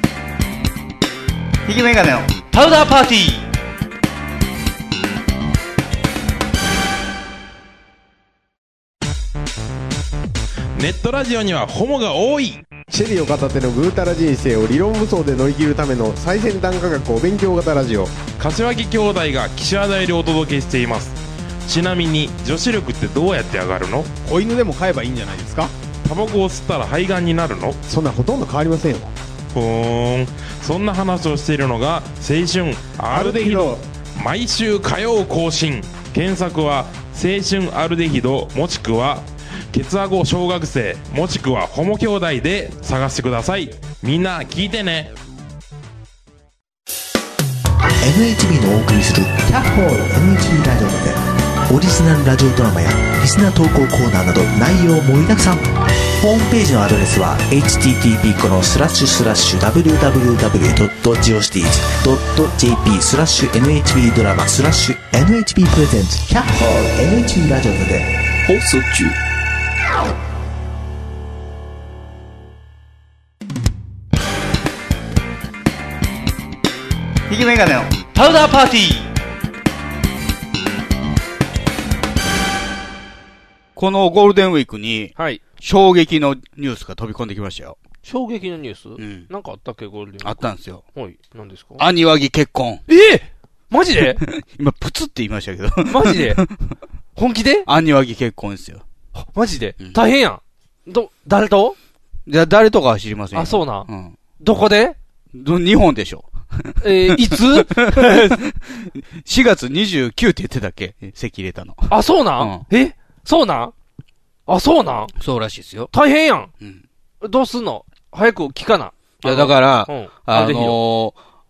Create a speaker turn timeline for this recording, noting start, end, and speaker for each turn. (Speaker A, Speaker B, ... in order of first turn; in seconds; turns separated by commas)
Speaker A: 1.7-2.3, Speaker B: 2.5-3.5, Speaker C: 10.8-12.6, Speaker D: 12.9-18.1, Speaker C: 18.4-24.1, Speaker D: 24.2-25.7, Speaker C: 26.0-27.8, Speaker D: 27.9-29.1, Speaker C: 29.5-45.1, Speaker D: 33.1-33.8, Speaker E: 48.0-68.1, Speaker B: 68.5-69.1, Speaker A: 77.3-77.9, Speaker B: 78.1-79.1, Speaker A: 83.8-87.8, Speaker F: 85.2-85.4, Speaker F: 88.0-91.8, Speaker A: 89.0-89.3, Speaker A: 90.2-90.8, Speaker A: 91.8-92.8, Speaker F: 92.9-94.2, Speaker A: 94.0-96.5, Speaker F: 95.9-96.4, Speaker F: 97.2-97.7, Speaker A: 97.7-98.8, Speaker F: 99.2-101.8, Speaker A: 102.3-104.2, Speaker F: 103.3-103.9, Speaker F: 104.4-105.0, Speaker A: 105.3-112.6, Speaker F: 106.8-108.4, Speaker F: 111.9-113.7, Speaker F: 114.5-115.1, Speaker A: 115.2-115.9, Speaker F: 115.9-116.5, Speaker F: 117.2-120.8, Speaker A: 119.2-121.2